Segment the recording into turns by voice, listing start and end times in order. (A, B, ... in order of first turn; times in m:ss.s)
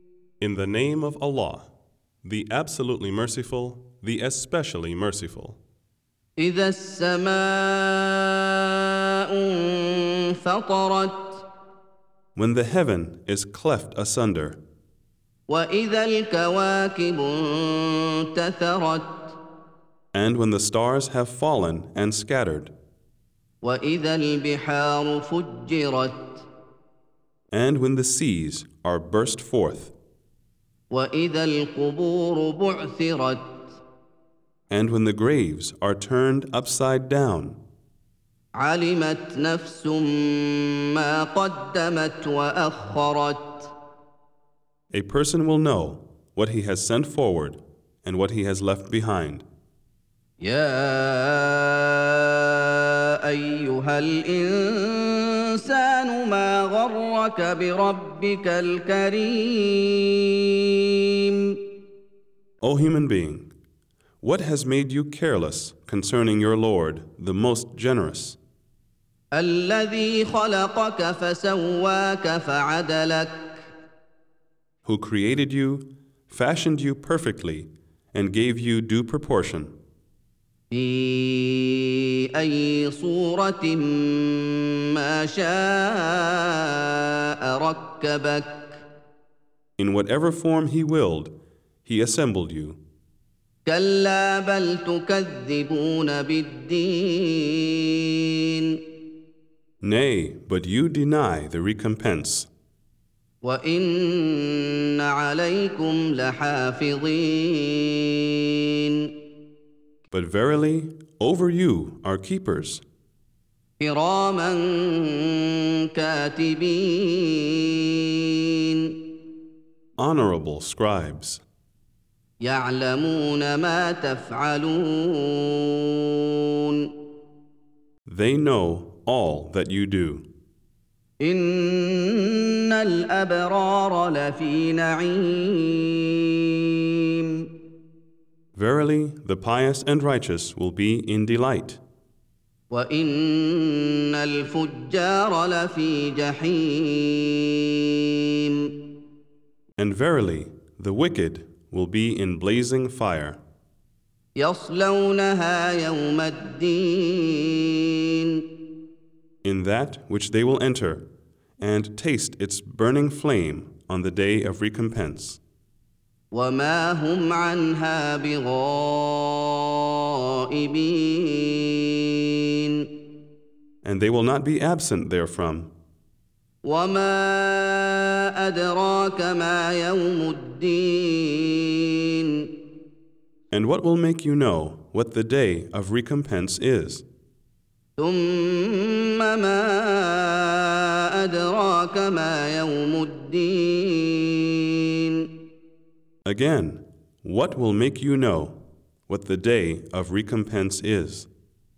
0:00.4-0:01.7 A
0:02.2-0:05.6 A
0:06.4-0:08.5 B
0:09.3-0:11.4 B
0:12.4-0:14.6 A
0:15.5-0:19.4 B
0:20.1-0:22.7 A
0:23.6-0:26.4 B
0:27.5-0:29.9 A
0:30.9-0:33.8 B
0:34.7-0:37.6 A
0:38.5-0:43.7 B
0:44.9-0:49.4 A
0:50.4-1:00.3 B
1:01.2-1:01.6 B
1:02.6-1:03.5 A
1:04.2-1:08.4 A
1:09.3-1:13.7 B
1:14.8-1:19.7 A
1:20.7-1:28.8 B
1:29.8-1:31.3 A
1:31.8-1:32.8 A
1:33.6-1:38.8 B
1:39.8-1:42.5 A
1:43.4-1:49.1 B
1:50.1-1:52.8 A
1:53.8-1:59.0 B
2:00.0-2:01.4 A
2:02.4-2:06.0 B
2:08.1-2:10.3 A
2:11.2-2:16.4 B
2:17.1-2:17.5 B
2:18.5-2:21.8 A
2:22.7-2:28.7 B
2:29.8-2:33.4 A
2:34.4-2:38.4 B
2:39.4-2:41.0 A
2:41.6-2:45.4 A
2:46.3-2:49.7 B
2:50.5-2:52.0 B
2:52.5-2:52.9 B
2:53.8-2:55.7 A
2:56.6-3:02.5 B
3:03.5-3:07.0 A
3:08.0-3:15.3 B
3:16.2-3:21.3 A